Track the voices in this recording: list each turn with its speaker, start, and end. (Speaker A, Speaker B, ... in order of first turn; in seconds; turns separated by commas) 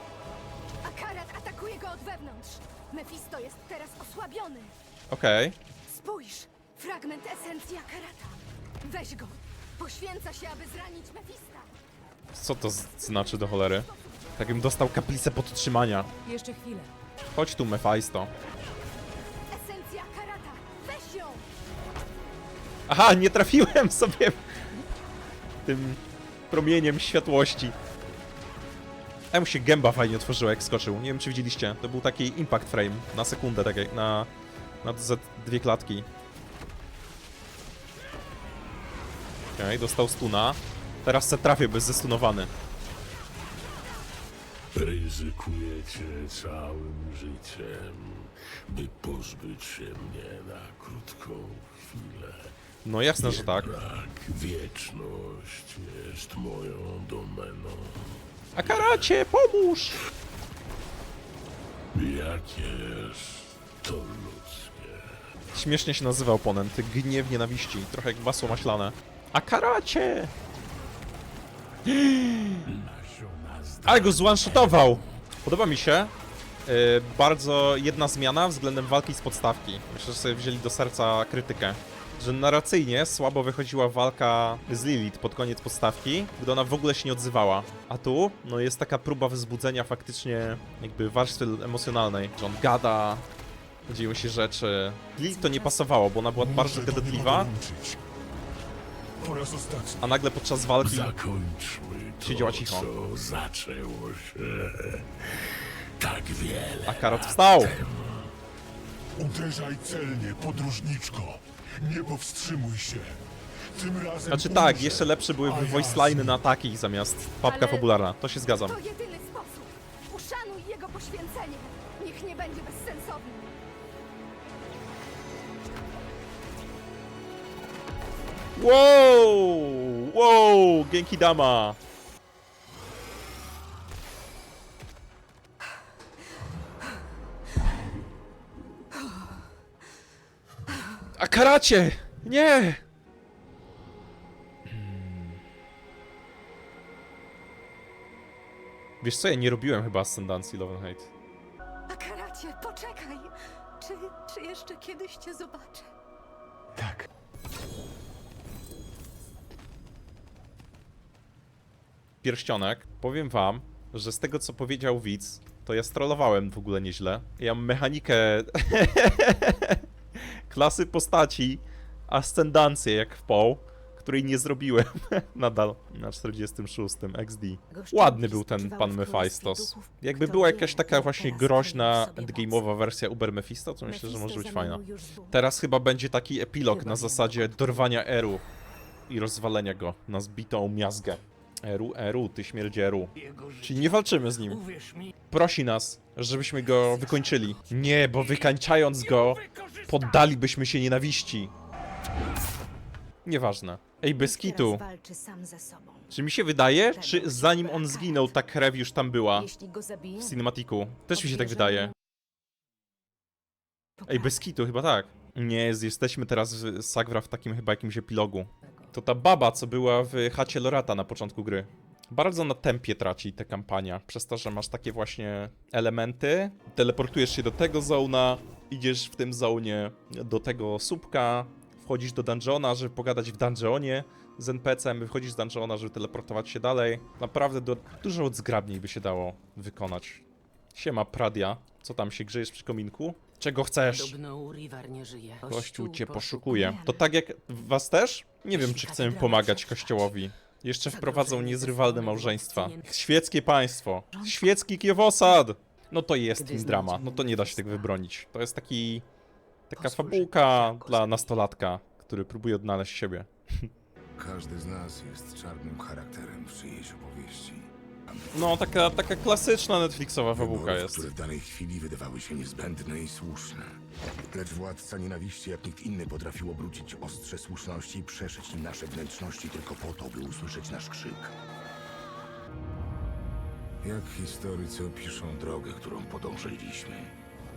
Speaker A: 0.8-4.7, Speaker B: 5.1-5.5, Speaker A: 5.8-11.7, Speaker B: 12.3-16.1, Speaker C: 16.3-16.9, Speaker B: 17.3-18.3, Speaker A: 19.5-21.5, Speaker B: 22.9-24.4, Speaker B: 25.6-27.8, Speaker B: 29.3-34.3, Speaker B: 34.8-36.1, Speaker B: 39.6-42.5, Speaker D: 44.7-52.5, Speaker B: 52.8-53.8, Speaker D: 53.2-58.2, Speaker B: 58.5-60.0, Speaker D: 61.9-65.2, Speaker B: 65.5-70.3, Speaker B: 71.8-72.6, Speaker D: 72.7-75.2, Speaker B: 73.8-76.1, Speaker B: 76.7-93.2, Speaker B: 93.9-97.5, Speaker E: 96.3-98.0, Speaker E: 99.2-100.1, Speaker B: 100.0-101.1, Speaker D: 100.9-108.3, Speaker B: 102.2-102.9, Speaker B: 106.8-107.8, Speaker E: 109.2-113.2, Speaker E: 113.7-116.4, Speaker B: 114.3-118.8, Speaker A: 117.5-117.9, Speaker A: 118.6-123.5, Speaker B: 128.6-131.8, Speaker B: 141.2-142.8, Speaker B: 144.7-145.4, Speaker B: 149.0-151.1, Speaker A: 151.9-155.9, Speaker B: 162.2-188.4, Speaker A: 177.7-182.6, Speaker A: 183.8-185.4, Speaker C: 186.7-187.4, Speaker B: 189.1-194.6, Speaker C: 193.1-195.1, Speaker B: 195.3-201.5, Speaker C: 198.1-198.5, Speaker C: 199.4-199.8, Speaker B: 203.2-204.8, Speaker A: 204.2-206.1, Speaker B: 206.1-209.5, Speaker A: 206.8-208.3, Speaker A: 209.3-210.4, Speaker B: 210.2-211.9, Speaker A: 211.2-211.9, Speaker A: 214.0-214.4, Speaker B: 214.1-244.2, Speaker C: 243.9-246.5, Speaker B: 245.4-259.0, Speaker A: 246.4-247.0, Speaker A: 248.7-250.1, Speaker A: 250.9-251.8, Speaker C: 251.0-252.8, Speaker A: 254.1-254.6, Speaker A: 256.4-257.9, Speaker B: 259.7-263.7, Speaker A: 259.8-261.3, Speaker F: 264.1-268.3, Speaker B: 268.3-271.1, Speaker F: 270.3-273.8, Speaker F: 274.3-281.3, Speaker F: 283.8-287.1